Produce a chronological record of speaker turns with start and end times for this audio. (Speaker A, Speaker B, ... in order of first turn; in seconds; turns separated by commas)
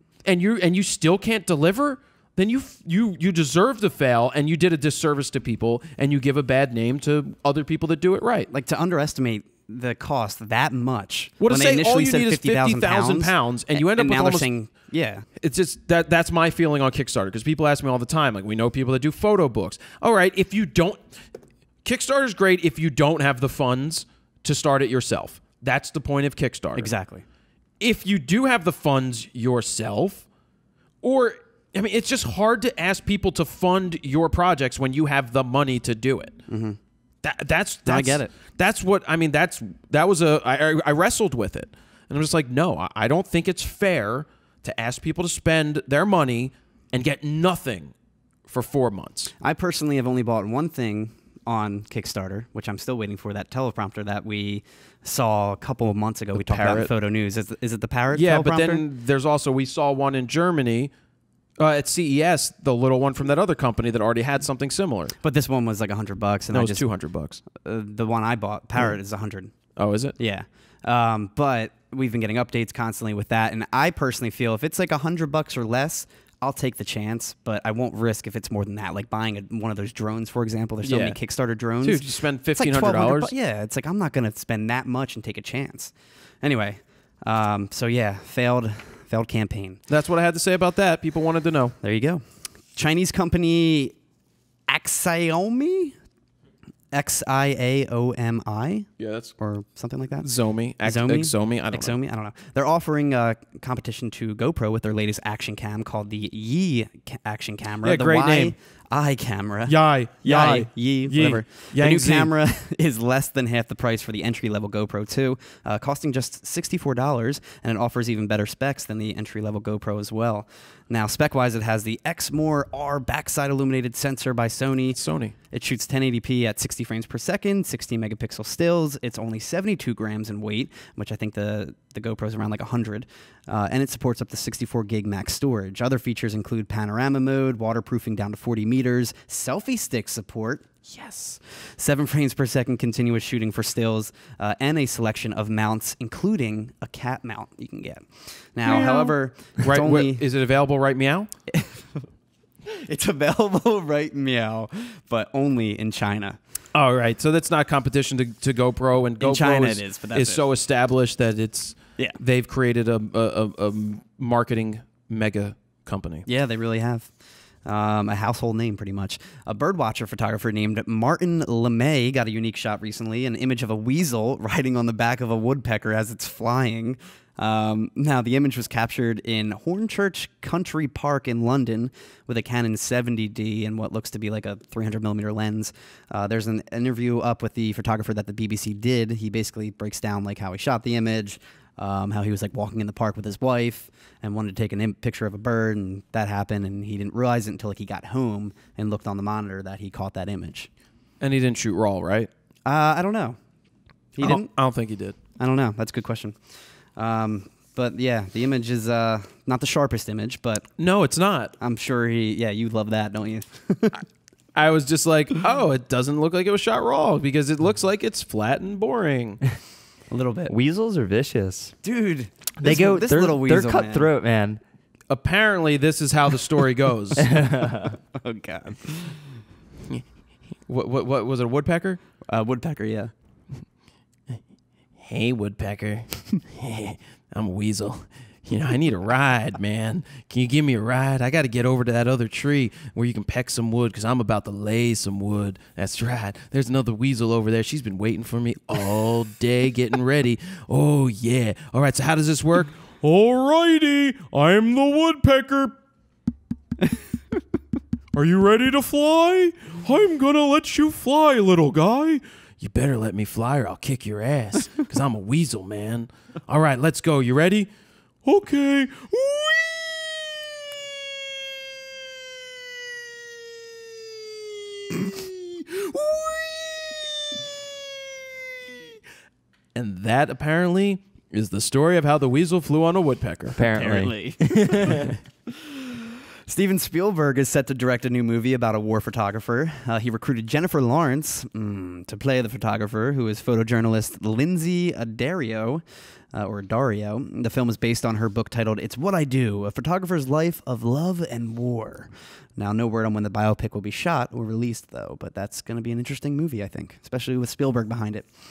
Speaker A: 0.2-8.5, Speaker B: 8.5-15.2, Speaker A: 11.4-14.5, Speaker A: 15.4-21.0, Speaker A: 21.8-26.9, Speaker B: 26.8-27.2, Speaker A: 27.8-30.2, Speaker A: 31.0-36.3, Speaker B: 36.5-36.8, Speaker A: 37.2-47.9, Speaker B: 37.9-38.3, Speaker A: 48.5-49.3, Speaker B: 49.4-58.8, Speaker A: 56.3-56.9, Speaker A: 58.1-60.9, Speaker A: 61.6-65.1, Speaker B: 65.2-66.9, Speaker A: 66.5-67.4, Speaker B: 67.5-69.5, Speaker A: 69.8-70.2, Speaker B: 70.2-89.8, Speaker A: 80.8-81.2, Speaker A: 81.8-83.3, Speaker A: 89.9-91.7, Speaker B: 91.8-92.2, Speaker B: 92.7-93.9, Speaker B: 94.7-96.0, Speaker B: 96.9-100.2, Speaker A: 99.0-99.3, Speaker A: 100.2-101.9, Speaker B: 100.8-125.0, Speaker A: 107.8-108.5, Speaker A: 109.7-112.3, Speaker A: 124.9-125.3, Speaker B: 125.5-150.2, Speaker A: 148.6-151.3, Speaker B: 151.5-152.0, Speaker B: 152.7-156.4, Speaker A: 156.7-166.2, Speaker B: 159.2-160.4, Speaker B: 166.3-167.1, Speaker B: 167.6-200.7, Speaker A: 201.2-202.3, Speaker B: 202.7-203.4, Speaker B: 204.1-204.5, Speaker A: 204.2-205.2, Speaker B: 205.4-206.4, Speaker B: 206.9-210.7, Speaker A: 210.8-211.5, Speaker B: 211.6-214.0, Speaker A: 214.5-219.4, Speaker B: 220.1-220.5, Speaker C: 220.5-221.7, Speaker B: 221.8-224.1, Speaker C: 222.6-224.6, Speaker A: 225.1-227.3, Speaker C: 227.3-227.9, Speaker B: 227.7-229.2, Speaker A: 230.7-232.0, Speaker B: 232.3-233.1, Speaker A: 235.0-255.8, Speaker A: 258.1-267.7, Speaker A: 268.2-270.5, Speaker A: 275.0-276.9, Speaker A: 279.7-283.6, Speaker C: 283.6-285.1, Speaker B: 283.7-308.2